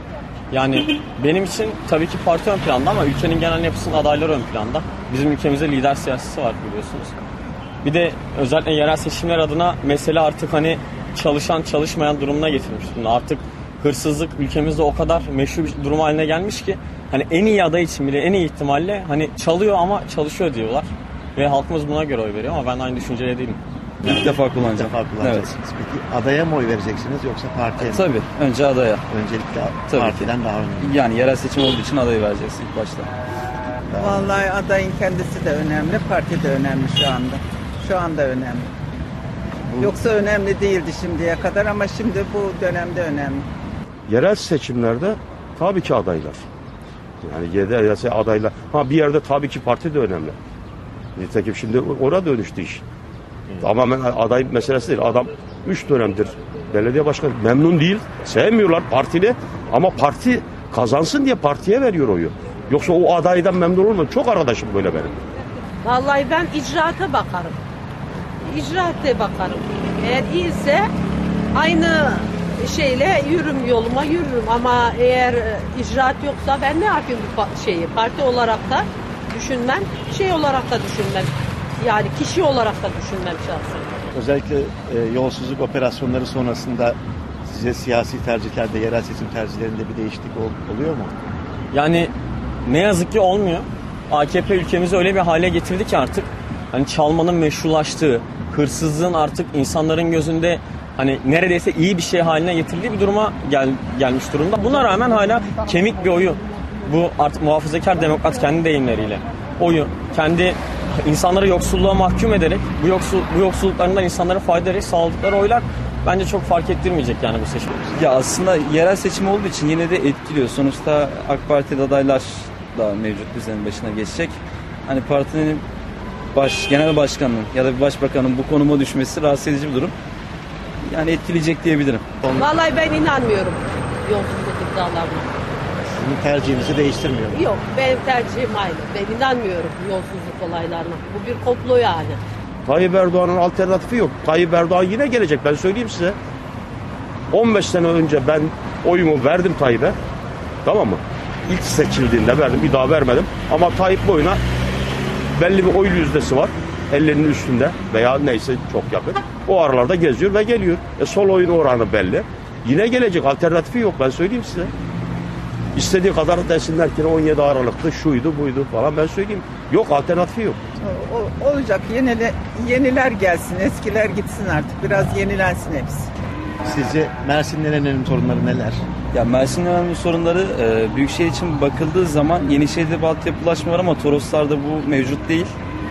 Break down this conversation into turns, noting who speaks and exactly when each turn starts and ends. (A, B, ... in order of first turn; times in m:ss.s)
0:00.5-0:07.2 A
0:07.8-0:23.6 A
0:24.0-0:28.1 B
0:24.0-0:25.5 C
0:27.8-0:29.0 C
0:29.1-0:31.0 B
0:29.9-0:33.1 C
0:33.9-0:34.2 B
0:33.9-0:38.7 D
0:39.8-0:43.5 D
0:44.1-0:46.4 E
0:47.2-0:50.4 E
0:51.2-0:52.8 E
0:53.6-1:05.2 E
1:05.8-1:07.6 F
1:08.5-1:10.9 F
1:11.6-1:23.8 F
1:24.1-1:31.1 B
1:31.7-1:32.1 A
1:32.6-1:57.8 A
1:58.0-2:05.6 C
2:06.3-2:09.9 C
2:10.8-2:12.0 C
2:12.4-2:15.3 F
2:15.9-2:17.4 B
2:17.3-2:22.2 F
2:22.7-2:26.2 E
2:27.3-2:30.0 E
2:30.6-2:34.4 E
2:35.4-2:44.7 E
2:45.7-2:50.6 E
2:50.8-2:56.1 D
2:56.6-2:58.8 B
2:59.1-3:05.5 C